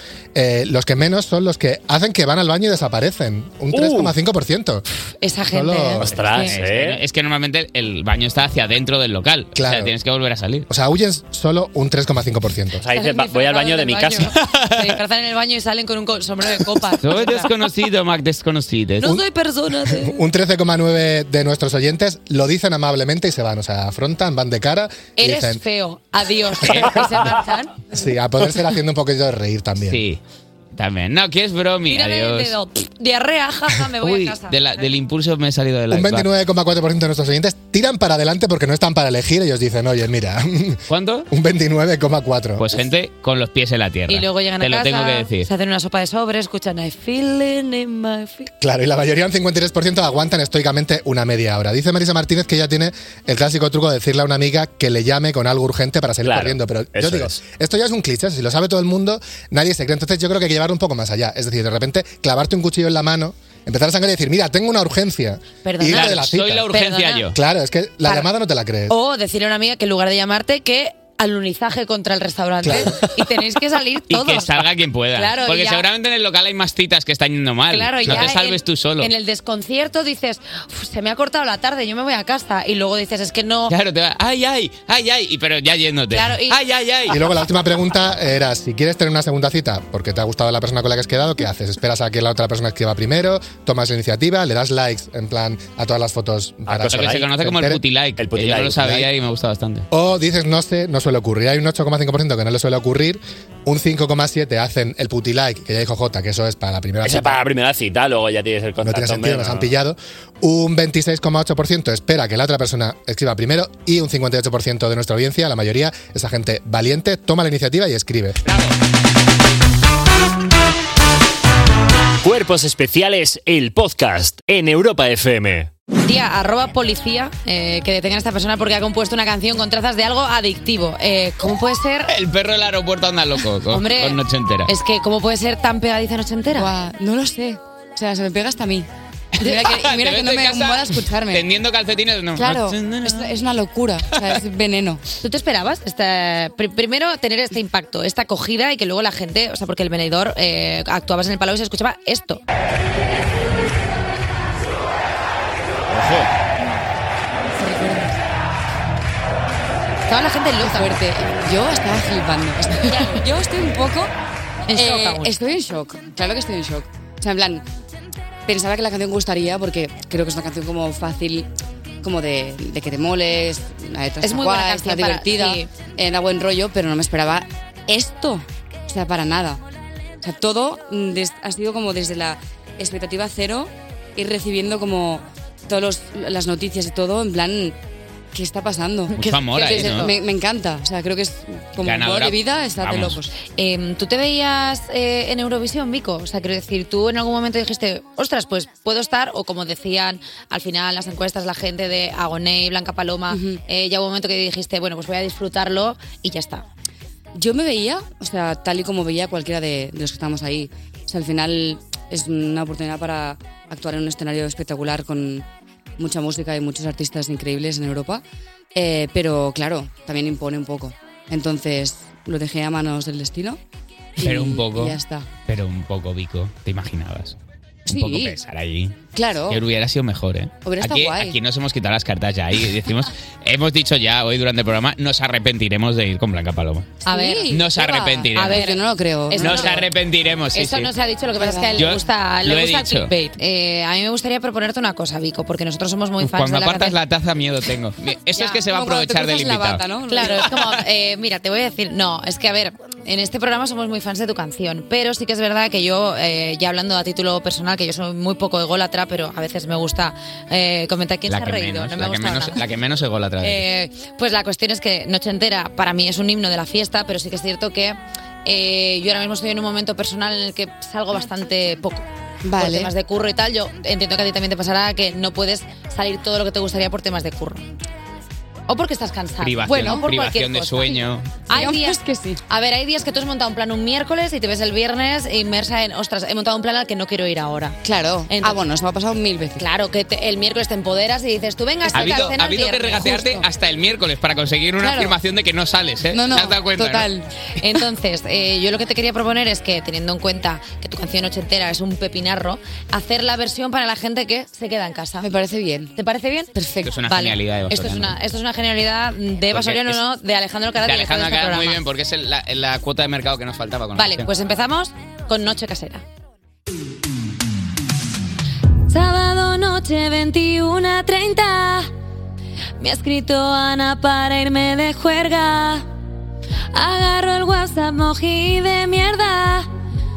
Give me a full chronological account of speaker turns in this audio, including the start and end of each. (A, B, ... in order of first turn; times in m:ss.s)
0:00.4-0:04.8 A
0:03.7-0:04.1 B
0:05.2-0:06.6 C
0:05.5-0:06.2 A
0:06.0-0:07.0 B
0:06.4-0:10.7 D
0:09.6-0:09.9 A
0:10.7-0:12.8 A
0:12.8-0:14.5 B
0:12.9-0:17.5 C
0:17.0-0:19.2 D
0:19.0-0:20.2 C
0:19.9-0:25.6 A
0:25.2-0:27.8 C
0:26.6-0:27.1 D
0:27.9-0:30.0 A
0:29.9-0:30.2 D
0:30.8-0:32.5 D
0:31.9-0:34.6 C
0:34.0-0:36.3 D
0:35.9-0:42.8 A
0:40.9-0:41.3 D
0:42.6-0:45.5 D
0:44.1-0:48.5 C
0:48.6-1:06.7 A
0:56.2-0:57.4 B
1:05.6-1:07.3 C
1:05.9-1:07.4 D
1:07.3-1:09.0 A
1:08.9-1:14.6 C
1:12.6-1:13.0 A
1:14.1-1:19.1 D
1:15.2-1:15.9 C
1:17.7-1:23.7 C
1:23.7-1:27.2 D
1:26.1-1:26.6 C
1:27.1-1:37.8 A
1:36.7-1:37.3 B
1:36.9-1:39.8 D
1:38.2-1:39.0 B
1:39.9-1:47.4 A
1:47.0-1:49.8 B
1:48.8-1:58.4 A
1:58.5-1:58.7 D
2:02.2-2:05.7 B
2:06.0-2:12.1 C
2:12.1-2:14.7 D
2:13.7-2:16.7 C
2:16.5-2:21.4 E
2:19.4-2:23.4 D
2:22.4-2:25.0 E
2:25.2-2:32.4 C
2:35.9-2:36.2 B
2:37.6-2:38.0 C
2:37.6-2:38.0 E
2:40.1-2:41.0 C
2:40.6-2:44.1 E
2:42.9-2:43.2 C
2:44.7-2:45.3 C
2:44.7-2:47.6 E
2:48.5-2:51.5 E
2:52.0-2:59.6 E
2:54.2-2:55.7 C
3:00.2-3:07.8 E
3:08.3-3:13.3 E
3:09.2-3:10.1 D
3:11.8-3:13.2 D
3:13.6-3:26.6 C
3:23.3-3:23.6 E
3:27.3-3:35.5 E
3:36.0-3:38.2 E
3:38.8-3:43.6 E
3:44.2-3:45.3 E
3:44.2-3:47.4 D
3:47.9-3:49.0 D
3:47.9-3:48.4 E
3:49.2-3:49.6 E
3:49.5-3:58.7 D
3:50.6-3:51.4 E
3:57.0-3:57.7 E
3:57.0-3:59.8 C
3:58.4-3:59.9 E
3:59.4-4:00.9 D
4:00.6-4:07.0 C
4:01.4-4:01.8 E
4:01.8-4:03.1 D
4:06.2-4:09.8 D
4:08.4-4:10.5 E
4:10.1-4:22.6 C
4:21.3-4:23.7 D
4:23.4-4:37.6 C
4:32.4-4:32.9 E
4:38.7-4:48.6 C
4:39.4-4:41.5 D
4:39.7-4:40.0 E
4:41.5-4:42.4 E
4:47.8-4:49.6 E
4:49.6-4:53.2 C
4:51.9-4:52.3 E
4:51.9-4:57.1 D
4:53.0-4:53.4 E
4:54.8-4:55.2 E
4:56.1-4:57.3 E
4:57.6-5:05.3 C
5:05.2-5:05.9 E
5:05.9-5:11.8 C
5:06.6-5:06.9 E
5:06.8-5:08.2 D
5:09.5-5:10.0 D
5:10.8-5:14.3 D
5:14.0-5:16.0 C
5:18.9-5:21.9 C
5:22.8-5:25.9 C
5:26.7-5:29.7 C